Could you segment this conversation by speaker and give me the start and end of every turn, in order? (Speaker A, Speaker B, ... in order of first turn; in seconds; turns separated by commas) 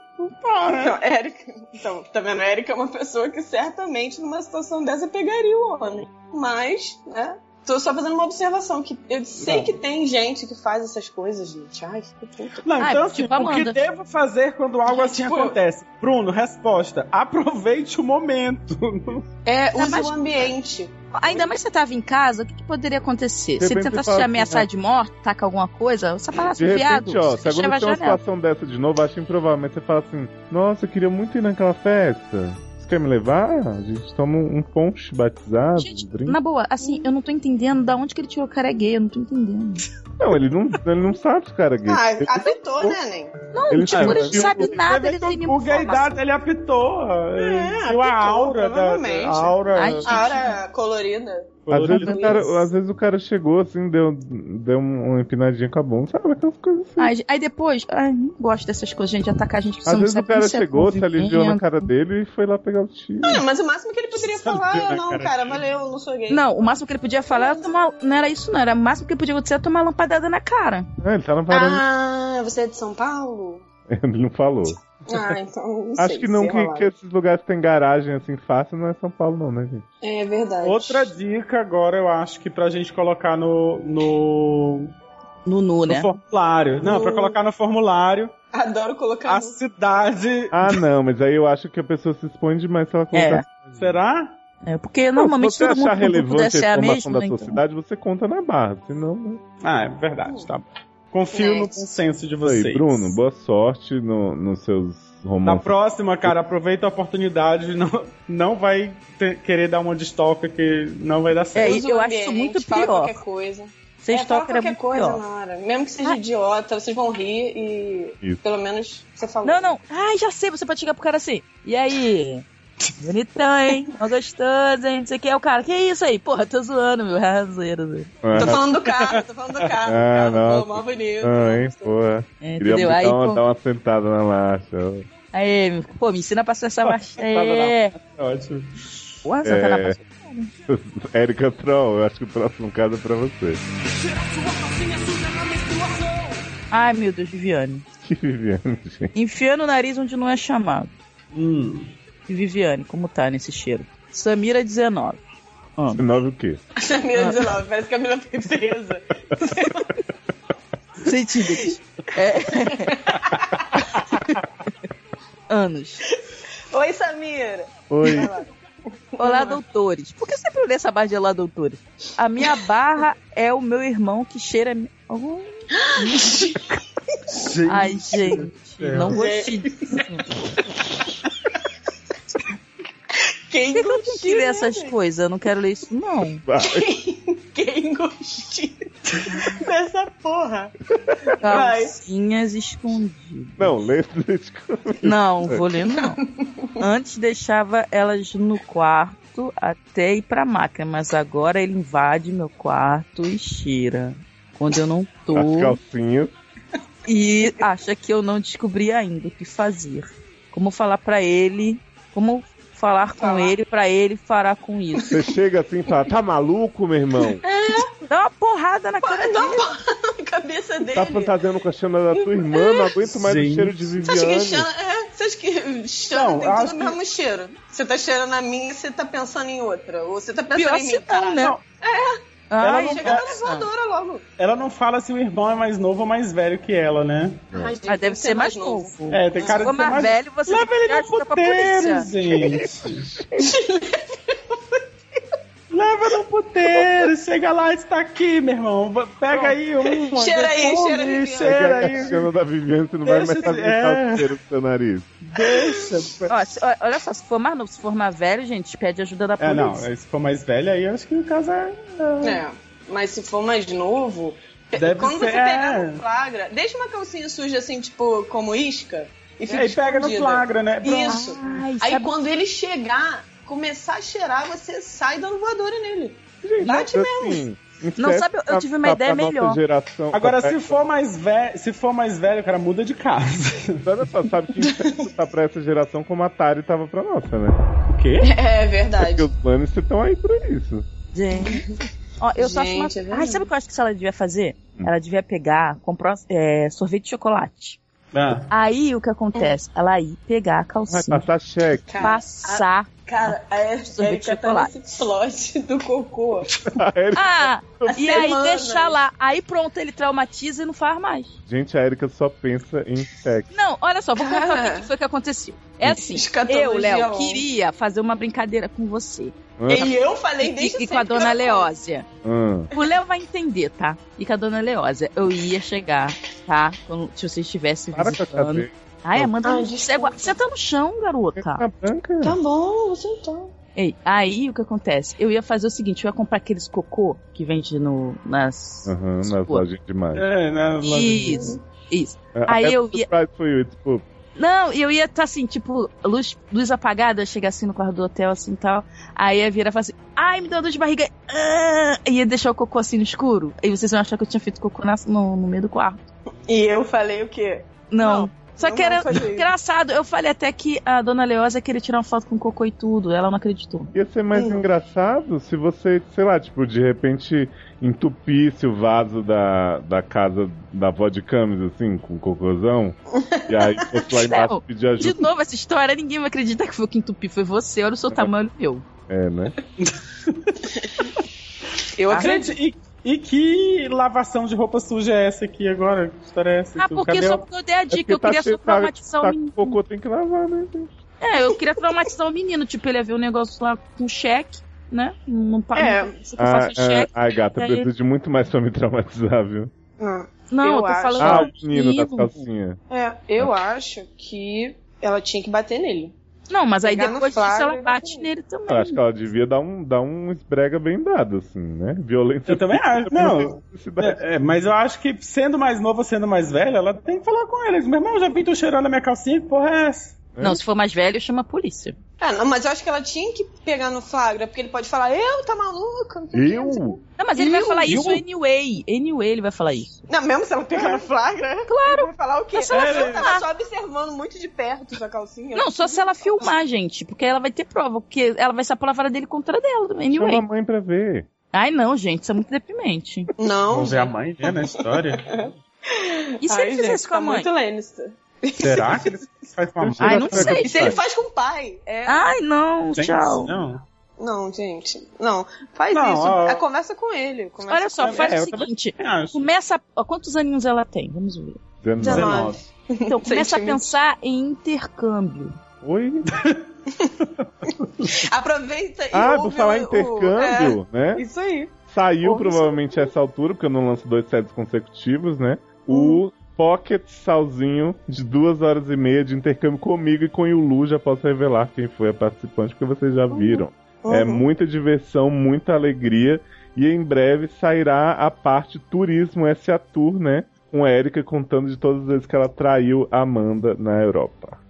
Speaker A: 0.3-0.9, Speaker B: 0.8-12.7, Speaker A: 9.4-9.8, Speaker A: 12.6-19.2, Speaker C: 12.8-13.8, Speaker B: 14.9-15.6, Speaker B: 19.5-21.5, Speaker C: 19.7-20.1, Speaker C: 21.1-28.2, Speaker D: 23.6-24.7, Speaker D: 26.6-36.4, Speaker C: 35.8-39.8, Speaker B: 36.8-37.1, Speaker D: 40.2-43.0, Speaker B: 41.9-43.3, Speaker C: 43.5-46.2, Speaker D: 43.7-44.7, Speaker A: 43.9-50.1, Speaker B: 47.4-52.6, Speaker C: 49.8-50.6, Speaker A: 51.7-52.4, Speaker D: 51.7-57.1, Speaker C: 57.0-61.9, Speaker D: 59.9-63.4, Speaker B: 63.2-66.4, Speaker A: 64.2-65.6, Speaker C: 66.3-70.9, Speaker B: 67.3-67.8, Speaker D: 71.0-71.8, Speaker B: 71.5-73.7, Speaker D: 73.9-74.8, Speaker B: 75.1-76.9, Speaker D: 76.0-79.8, Speaker B: 80.0-81.1, Speaker A: 80.6-84.9, Speaker C: 85.5-86.1, Speaker A: 85.9-88.3, Speaker B: 86.8-87.4, Speaker B: 88.5-89.6, Speaker A: 89.3-90.8, Speaker D: 90.5-93.9, Speaker C: 93.1-93.5, Speaker A: 93.8-94.4, Speaker C: 94.7-97.6, Speaker D: 95.2-99.4, Speaker A: 99.6-103.0, Speaker B: 101.3-101.8, Speaker D: 102.4-105.7, Speaker A: 105.5-111.8, Speaker C: 111.5-113.2, Speaker B: 111.6-119.8, Speaker C: 114.0-115.2, Speaker C: 119.4-122.5, Speaker C: 123.0-128.1, Speaker D: 128.2-128.6, Speaker B: 128.4-132.0, Speaker A: 128.5-129.2, Speaker D: 129.8-135.1, Speaker C: 132.4-133.4, Speaker C: 135.3-137.9, Speaker A: 136.9-138.9, Speaker C: 139.2-140.5, Speaker D: 139.4-140.0, Speaker D: 140.7-143.6, Speaker A: 144.1-146.4, Speaker C: 146.7-147.8, Speaker D: 148.0-149.1, Speaker C: 149.2-150.9, Speaker A: 151.3-151.9, Speaker C: 152.3-155.2, Speaker C: 155.8-156.0, Speaker D: 155.9-156.6, Speaker B: 156.8-159.9, Speaker C: 161.0-163.1, Speaker B: 162.7-163.6, Speaker C: 164.0-164.4, Speaker C: 165.5-166.1, Speaker B: 166.7-168.5, Speaker D: 167.9-168.3, Speaker B: 169.2-169.6, Speaker C: 169.2-176.8, Speaker B: 175.7-176.6, Speaker A: 177.3-179.2, Speaker C: 177.7-180.3, Speaker B: 179.1-180.0, Speaker B: 183.5-184.9, Speaker C: 183.8-186.4, Speaker D: 186.4-186.9, Speaker B: 186.6-190.8, Speaker D: 191.1-191.3, Speaker B: 191.3-192.0, Speaker C: 191.4-193.8, Speaker D: 193.6-195.6, Speaker C: 195.0-196.2, Speaker B: 196.0-196.7, Speaker C: 196.8-205.8, Speaker D: 205.3-206.3, Speaker C: 207.1-215.1, Speaker B: 213.2-213.6, Speaker D: 215.1-217.4, Speaker B: 217.4-217.9, Speaker C: 218.1-219.7, Speaker B: 219.0-221.4, Speaker D: 220.9-224.7, Speaker B: 222.1-223.0, Speaker A: 223.2-224.0, Speaker B: 224.0-234.2, Speaker A: 226.1-227.0, Speaker C: 230.6-231.6, Speaker C: 232.5-233.7, Speaker A: 232.6-233.3, Speaker A: 234.4-237.5, Speaker B: 237.5-239.7, Speaker C: 237.9-242.1, Speaker A: 239.1-243.1, Speaker D: 242.4-243.5, Speaker B: 243.4-244.8, Speaker A: 245.7-252.2, Speaker B: 249.9-252.1, Speaker D: 251.4-255.1, Speaker A: 253.1-254.3, Speaker A: 255.3-256.4, Speaker C: 256.3-259.9, Speaker A: 259.4-262.4, Speaker B: 262.2-277.4, Speaker A: 264.8-266.0, Speaker A: 269.5-271.2, Speaker C: 271.1-272.1, Speaker D: 276.4-280.9, Speaker C: 278.0-279.6, Speaker A: 280.1-283.9, Speaker D: 283.8-287.6, Speaker A: 287.9-288.3, Speaker B: 288.2-289.3, Speaker D: 289.0-290.9, Speaker C: 291.1-291.7, Speaker B: 291.4-291.8, Speaker C: 292.2-297.8, Speaker B: 292.4-293.5, Speaker A: 298.1-298.5, Speaker C: 298.5-301.3, Speaker D: 300.9-302.0, Speaker B: 301.9-306.5, Speaker C: 302.0-303.3, Speaker C: 303.9-304.7, Speaker D: 306.7-308.2, Speaker C: 307.1-311.4, Speaker B: 307.9-309.0, Speaker D: 311.5-313.5, Speaker C: 313.5-319.9, Speaker B: 314.2-314.9, Speaker B: 315.9-317.4, Speaker D: 319.6-319.9, Speaker B: 319.7-321.7, Speaker C: 320.4-322.1, Speaker D: 322.2-322.7, Speaker C: 322.7-331.6, Speaker D: 327.9-329.3, Speaker B: 329.4-330.4, Speaker D: 331.4-332.4, Speaker B: 332.2-333.5, Speaker C: 333.8-339.6, Speaker D: 338.9-340.3, Speaker A: 340.1-341.6, Speaker C: 340.8-343.1, Speaker B: 341.3-341.6, Speaker D: 342.4-344.1, Speaker C: 344.4-356.0, Speaker B: 356.5-359.5, Speaker C: 357.9-363.9, Speaker D: 363.9-375.3, Speaker B: 364.3-364.6, Speaker B: 373.1-374.0, Speaker C: 374.2-378.9, Speaker D: 379.1-379.6, Speaker A: 379.8-380.7, Speaker B: 380.8-381.1, Speaker B: 382.0-382.5, Speaker C: 382.1-382.4, Speaker A: 382.1-387.4, Speaker C: 386.8-389.8, Speaker D: 387.9-390.9, Speaker C: 391.2-397.9, Speaker B: 395.8-396.2, Speaker D: 396.4-399.7, Speaker B: 400.0-401.5, Speaker C: 400.5-402.4, Speaker D: 401.2-402.8, Speaker B: 402.9-406.1, Speaker C: 406.5-409.0, Speaker B: 406.8-408.3, Speaker D: 408.7-414.2, Speaker A: 412.5-420.2, Speaker D: 420.4-420.6, Speaker C: 420.4-422.0, Speaker B: 422.2-428.1, Speaker D: 426.3-427.0, Speaker C: 427.2-430.0, Speaker A: 427.9-428.2, Speaker B: 430.1-436.5, Speaker A: 430.7-431.1, Speaker C: 431.7-433.4, Speaker A: 432.7-433.3, Speaker C: 435.5-440.4, Speaker D: 440.1-441.3, Speaker C: 441.5-443.3, Speaker B: 443.4-444.5, Speaker A: 443.7-445.5, Speaker B: 445.3-449.1, Speaker C: 446.4-447.5, Speaker A: 448.6-450.6, Speaker D: 449.8-451.0, Speaker C: 450.0-451.0, Speaker B: 450.6-452.4, Speaker C: 452.1-453.5, Speaker A: 452.9-453.8, Speaker B: 454.2-458.2, Speaker A: 455.9-456.6, Speaker C: 457.7-461.6, Speaker A: 458.0-459.5, Speaker D: 461.8-462.5, Speaker A: 462.0-462.6, Speaker B: 462.0-464.0, Speaker C: 463.1-465.6, Speaker D: 465.8-466.3, Speaker A: 466.3-466.6, Speaker A: 467.4-468.2, Speaker B: 468.1-473.1, Speaker D: 469.1-471.2, Speaker D: 471.9-494.6, Speaker B: 475.9-476.2, Speaker B: 483.3-484.5